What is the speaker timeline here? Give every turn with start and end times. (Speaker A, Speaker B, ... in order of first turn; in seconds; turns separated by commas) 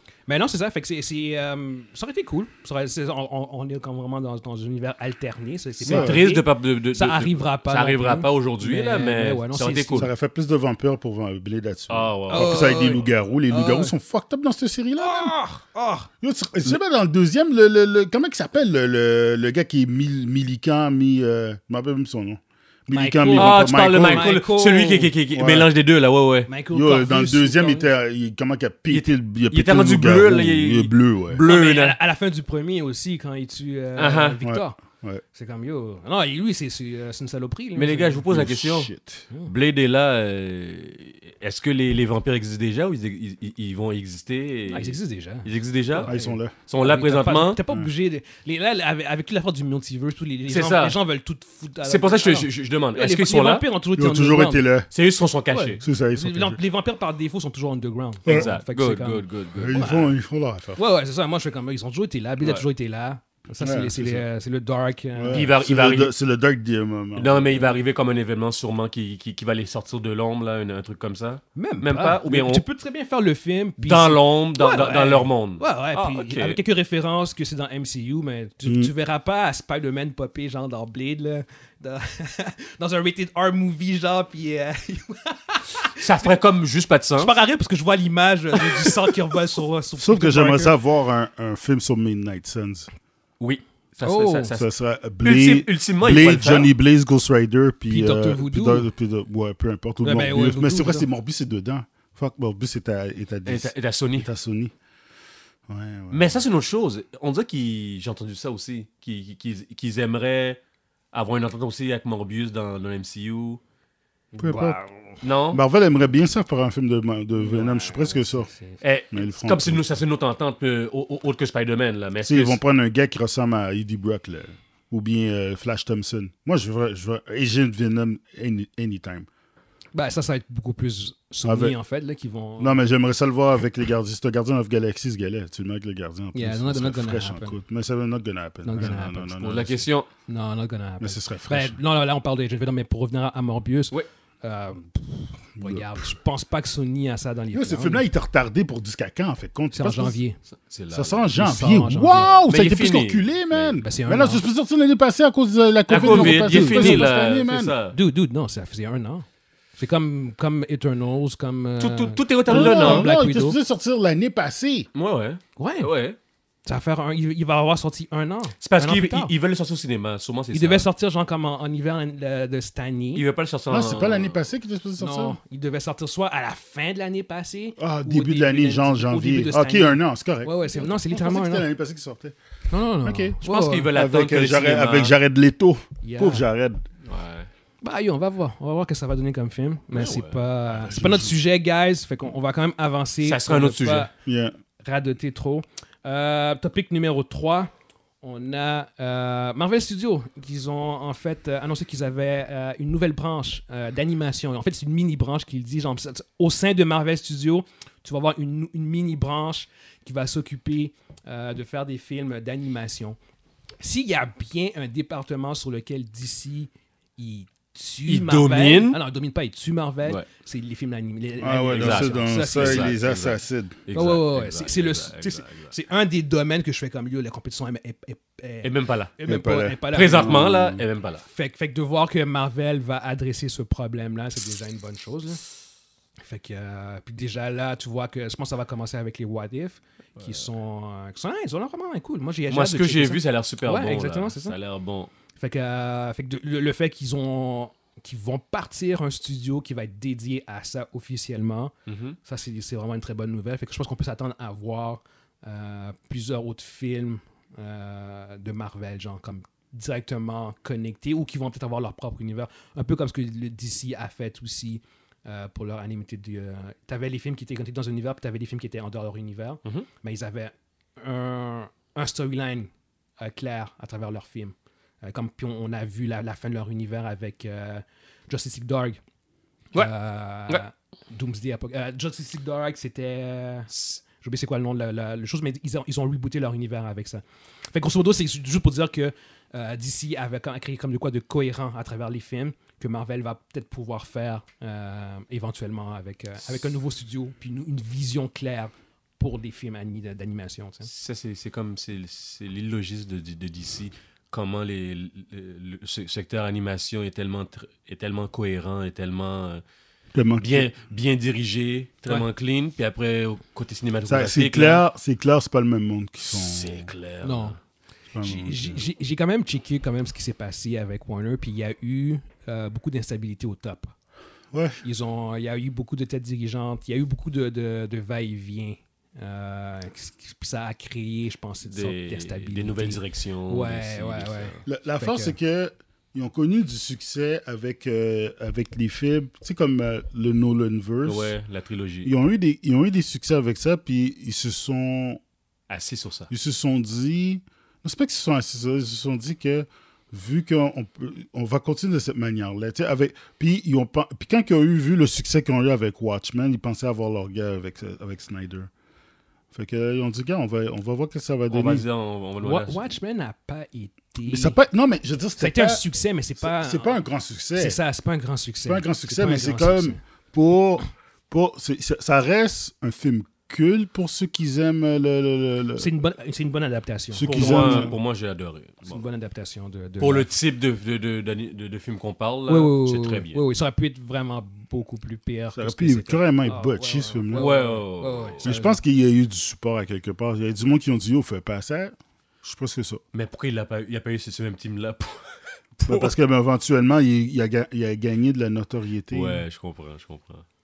Speaker A: 0.3-10.1, Speaker B: 5.8-6.2, Speaker C: 5.9-10.1, Speaker B: 10.0-15.3, Speaker C: 11.9-13.1, Speaker A: 12.3-13.9, Speaker A: 15.0-16.1, Speaker B: 16.2-24.3, Speaker A: 22.9-25.1, Speaker C: 23.3-26.5, Speaker B: 25.3-25.7, Speaker A: 26.5-27.9, Speaker B: 26.7-31.4, Speaker C: 28.9-32.0, Speaker A: 31.4-34.8, Speaker C: 34.0-34.4, Speaker B: 34.4-35.2, Speaker A: 35.3-38.2, Speaker C: 37.8-38.9, Speaker B: 38.3-39.2, Speaker C: 39.5-46.1, Speaker A: 44.7-54.6, Speaker B: 46.1-46.5, Speaker C: 46.7-47.6, Speaker C: 50.5-51.0, Speaker C: 51.8-53.6, Speaker B: 54.0-54.9, Speaker C: 54.9-55.8, Speaker A: 55.5-60.1, Speaker B: 55.8-56.6, Speaker C: 58.3-59.8, Speaker B: 59.5-60.8, Speaker A: 60.8-65.5, Speaker B: 63.6-64.2, Speaker B: 65.2-67.6, Speaker C: 65.3-66.1, Speaker C: 67.2-72.7, Speaker A: 71.6-86.2, Speaker C: 73.8-76.6, Speaker B: 78.7-78.9, Speaker C: 86.0-87.4, Speaker A: 87.2-90.8, Speaker B: 90.0-92.9, Speaker C: 93.4-94.7, Speaker A: 94.0-94.5, Speaker B: 94.5-104.7, Speaker C: 95.2-96.7, Speaker A: 97.9-98.9, Speaker A: 100.0-101.1, Speaker C: 103.5-104.3, Speaker B: 105.7-106.4, Speaker C: 106.1-110.6, Speaker C: 111.1-113.6, Speaker A: 114.3-115.2, Speaker B: 114.4-114.8, Speaker C: 115.2-115.6, Speaker B: 115.5-118.5, Speaker A: 117.4-118.8, Speaker C: 118.8-122.6, Speaker B: 119.1-119.9, Speaker B: 122.2-129.3, Speaker A: 129.9-132.9, Speaker B: 131.4-131.8, Speaker B: 132.6-139.9, Speaker A: 136.3-137.6, Speaker A: 138.6-139.3, Speaker C: 138.8-140.1, Speaker A: 140.3-148.1, Speaker B: 141.0-141.8, Speaker B: 145.6-146.1, Speaker B: 147.5-150.2, Speaker A: 149.7-150.4, Speaker C: 150.5-151.3, Speaker B: 150.9-157.7, Speaker A: 151.3-152.5, Speaker C: 152.2-153.8, Speaker A: 153.8-154.4, Speaker C: 155.9-158.0, Speaker A: 155.9-157.1, Speaker A: 157.9-159.3, Speaker A: 159.8-163.6, Speaker C: 161.8-163.1, Speaker B: 162.5-164.9, Speaker C: 164.9-166.2, Speaker A: 165.6-165.9, Speaker A: 166.7-169.3, Speaker C: 168.6-170.9, Speaker A: 170.5-173.2, Speaker C: 173.2-174.4, Speaker B: 173.7-175.4, Speaker A: 175.0-181.7, Speaker B: 177.8-182.4, Speaker A: 182.7-183.9, Speaker B: 183.0-183.4, Speaker C: 183.4-185.2, Speaker B: 183.9-186.8, Speaker A: 186.0-186.5, Speaker C: 187.1-187.5, Speaker A: 187.8-194.1, Speaker C: 189.9-190.4, Speaker B: 190.9-191.3, Speaker C: 193.2-194.1, Speaker B: 194.3-194.5, Speaker A: 194.8-213.2, Speaker A: 213.8-222.9, Speaker C: 218.1-219.0, Speaker B: 221.4-223.8, Speaker C: 221.7-225.7, Speaker A: 223.9-230.4, Speaker C: 228.6-229.1, Speaker B: 229.3-230.8, Speaker C: 229.9-231.2, Speaker A: 231.3-235.4, Speaker A: 236.2-244.6, Speaker C: 242.5-245.1, Speaker A: 245.4-251.7, Speaker C: 251.9-252.2, Speaker A: 252.2-279.0, Speaker A: 279.8-300.9, Speaker C: 283.7-284.0, Speaker C: 300.9-309.6, Speaker B: 310.1-310.7, Speaker C: 310.4-314.8, Speaker B: 314.1-316.9, Speaker C: 316.3-317.6, Speaker A: 317.2-317.6, Speaker B: 318.1-318.8, Speaker A: 318.2-323.9, Speaker B: 324.5-324.8, Speaker A: 324.8-335.4, Speaker C: 331.6-334.6, Speaker B: 334.7-341.4, Speaker C: 341.1-342.1, Speaker B: 342.0-345.2, Speaker C: 345.7-346.3, Speaker B: 346.3-358.7, Speaker B: 359.5-361.8, Speaker C: 361.5-362.9, Speaker A: 362.4-364.6, Speaker B: 364.3-365.8, Speaker A: 365.4-367.0, Speaker B: 366.4-367.8, Speaker A: 367.6-370.0, Speaker B: 368.7-375.9, Speaker A: 375.8-377.9, Speaker B: 377.1-377.9, Speaker C: 377.2-379.0, Speaker A: 378.9-380.3, Speaker C: 380.0-383.4, Speaker A: 382.5-388.8, Speaker B: 385.6-387.5, Speaker C: 387.3-388.4, Speaker B: 388.4-393.0, Speaker C: 393.1-395.2, Speaker C: 395.8-396.1, Speaker B: 395.8-399.4, Speaker C: 399.1-400.4